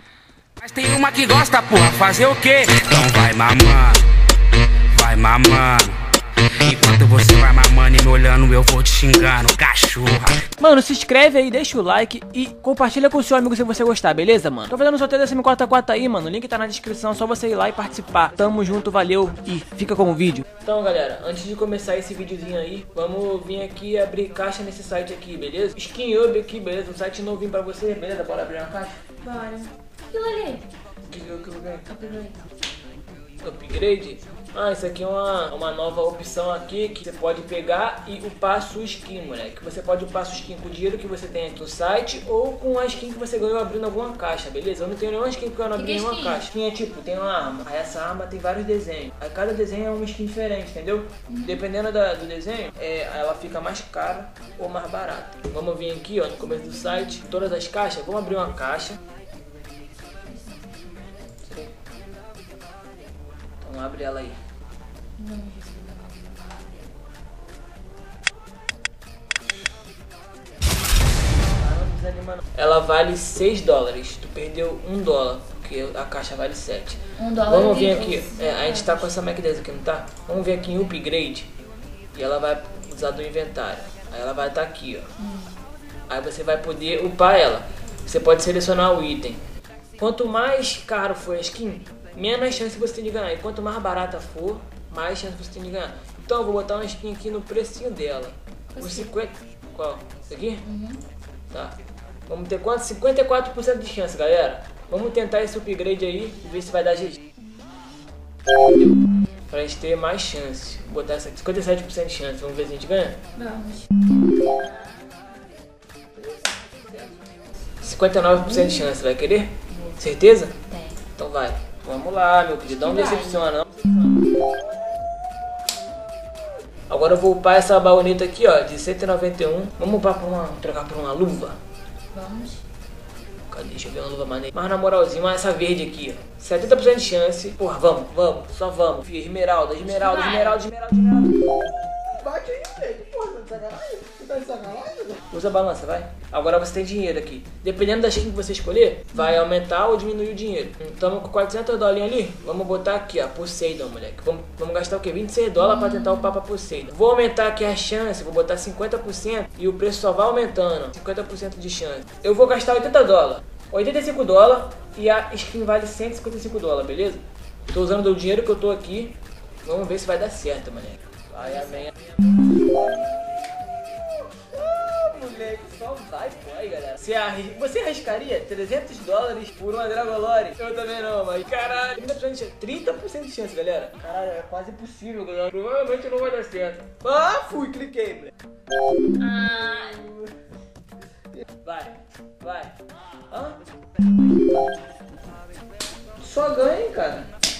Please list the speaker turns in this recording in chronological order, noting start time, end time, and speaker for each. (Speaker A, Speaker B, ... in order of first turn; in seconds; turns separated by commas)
Speaker A: 0.6-4.0, Speaker A: 4.9-5.9, Speaker A: 6.6-10.4, Speaker B: 10.6-29.0, Speaker C: 29.2-30.6, Speaker B: 31.1-31.9, Speaker C: 31.9-32.4, Speaker B: 33.4-59.0, Speaker C: 45.7-46.5, Speaker C: 51.3-51.6, Speaker C: 56.6-57.2, Speaker C: 60.3-60.7, Speaker B: 61.5-61.7, Speaker B: 63.6-64.4, Speaker C: 65.2-66.3, Speaker B: 71.4-81.5, Speaker C: 77.2-79.1, Speaker B: 82.1-85.1, Speaker C: 85.2-85.5, Speaker B: 86.1-89.4, Speaker B: 90.0-100.6, Speaker C: 98.7-99.1, Speaker C: 100.6-101.0, Speaker B: 102.3-107.2, Speaker B: 108.6-108.9, Speaker B: 109.5-113.2, Speaker C: 113.3-115.4, Speaker C: 116.6-117.2, Speaker B: 117.8-120.5, Speaker C: 118.4-118.9, Speaker C: 119.7-120.0, Speaker C: 120.7-121.0, Speaker B: 121.2-124.2, Speaker C: 122.7-123.5, Speaker B: 126.9-131.6, Speaker C: 132.1-132.6, Speaker B: 133.5-141.4, Speaker C: 139.8-140.6, Speaker B: 145.3-172.1, Speaker C: 149.1-149.4, Speaker C: 155.6-156.4, Speaker B: 174.4-188.3, Speaker C: 189.2-190.0, Speaker B: 189.5-190.1, Speaker B: 191.6-192.7, Speaker B: 193.3-193.6, Speaker B: 196.2-197.3